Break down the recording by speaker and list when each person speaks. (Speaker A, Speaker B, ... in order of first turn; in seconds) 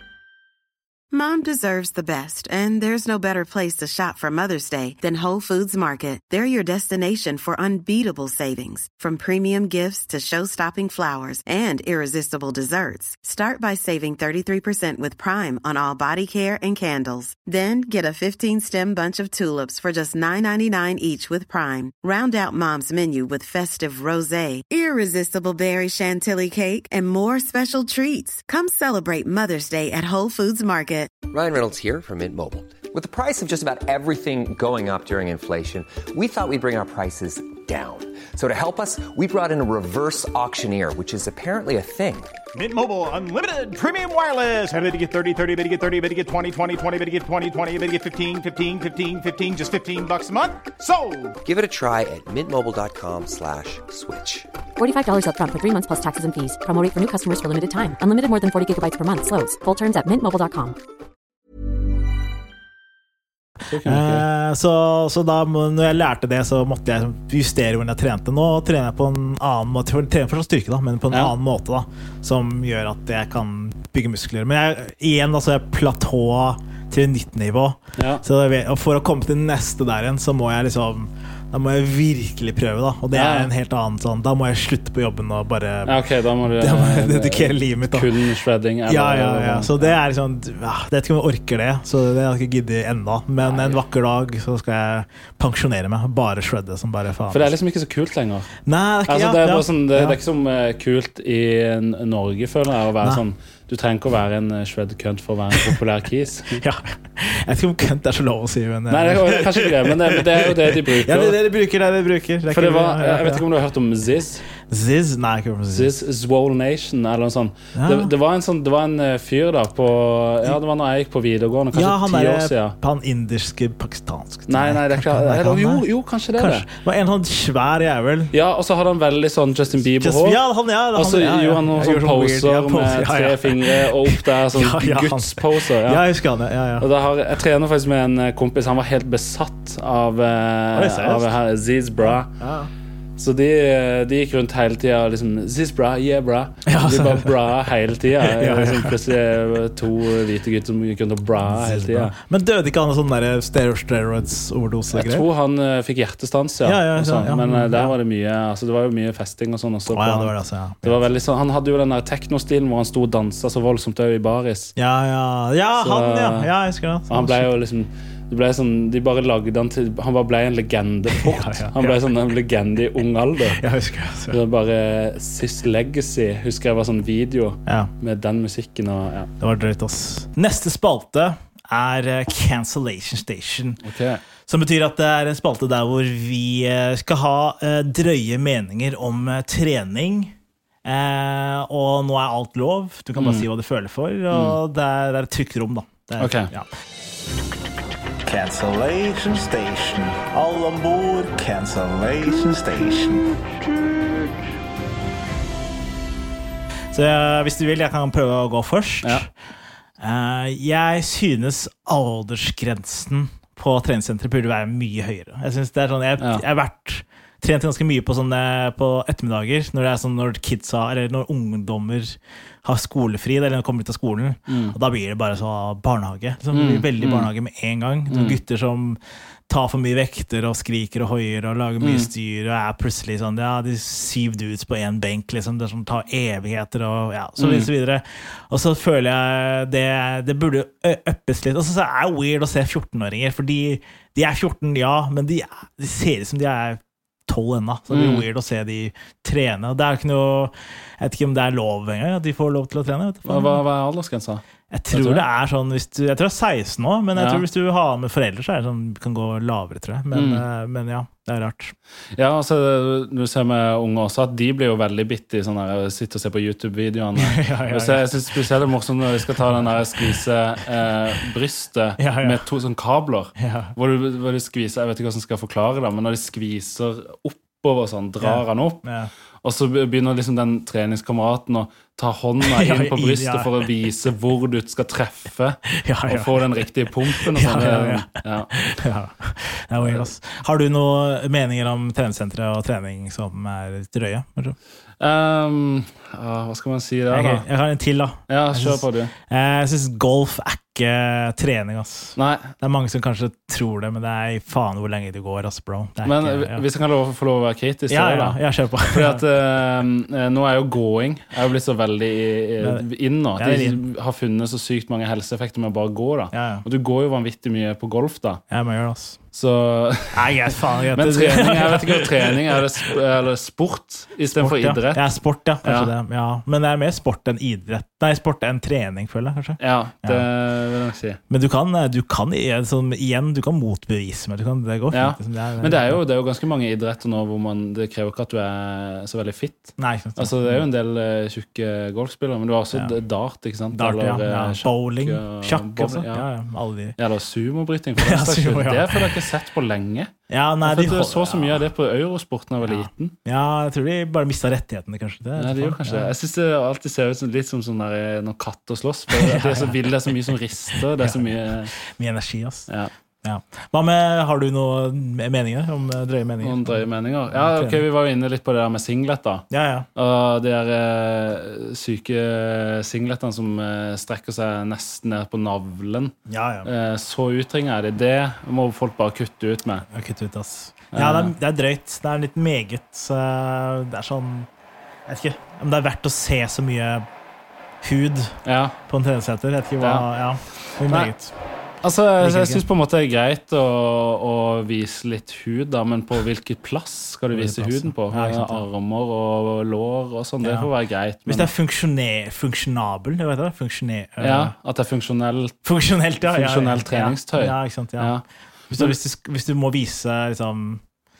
Speaker A: 1.1-31.1
Speaker B: 31.3-42.3, 51.4-54.5
Speaker C: 42.5-51.4
Speaker D: 54.8-60.8
Speaker E: 63.7-64.2, 78.0-78.2, 83.1-83.5, 85.9-90.0, 93.4-93.8, 97.3-98.5, 99.1-106.6, 108.9-111.4, 112.5-114.5, 115.7-122.8, 124.5-126.7, 128.3-130.4, 130.9-136.0, 136.8-142.3, 143.2-152.1, 154.9-164.7, 165.8-166.5, 167.1-173.6, 174.3-179.3, 183.8-184.2, 193.2-193.5, 194.3-194.6, 196.2-196.5, 224.5-224.8, 226.5-227.3, 228.1-228.4, 231.8-232.1, 237.4-237.7, 247.9-248.2, 253.2-255.2, 257.1-257.4, 260.1-260.4, 262.1-278.8, 279.4-288.5, 289.8-290.1, 295.0-297.4, 298.3-299.1, 302.1-302.5, 306.0-308.4, 308.9-318.4, 319.3-325.9, 329.6-331.2, 334.9-346.2, 347.0-353.1, 355.4-361.7, 366.4-379.9, 380.9-381.3, 388.4-388.7, 389.8-391.1, 391.8-401.5, 404.2-405.6, 406.2-408.2
Speaker F: 63.8-86.0, 86.5-88.1, 88.9-97.5, 98.7-100.2, 106.6-113.5, 114.6-115.9, 117.7-118.1, 121.7-128.3, 129.9-136.9, 140.7-141.4, 142.0-142.7, 146.7-147.3, 148.2-149.0, 151.4-155.2, 156.6-157.9, 159.9-161.0, 164.8-167.5, 171.1-172.0, 173.6-174.4, 177.7-177.9, 179.4-183.8, 184.4-196.7, 198.2-204.3, 206.9-209.3, 210.0-253.6, 254.7-261.7, 267.2-268.2, 269.5-270.2, 272.0-272.4, 273.4-273.7, 278.2-279.1, 282.4-283.6, 285.7-294.6, 297.1-306.6, 307.9-309.2, 312.6-313.8, 316.3-316.6, 318.5-319.2, 320.1-322.6, 324.3-330.3, 331.3-336.0, 339.8-340.6, 343.7-347.0, 348.0-349.2, 350.3-351.7, 352.6-356.1, 359.1-360.1, 360.8-362.7, 363.2-367.8, 369.5-369.9, 376.3-376.7, 379.9-384.5, 385.1-387.1, 387.8-391.4, 392.2-392.6, 397.3-398.6, 400.4-400.7, 401.2-404.5, 405.6-410.8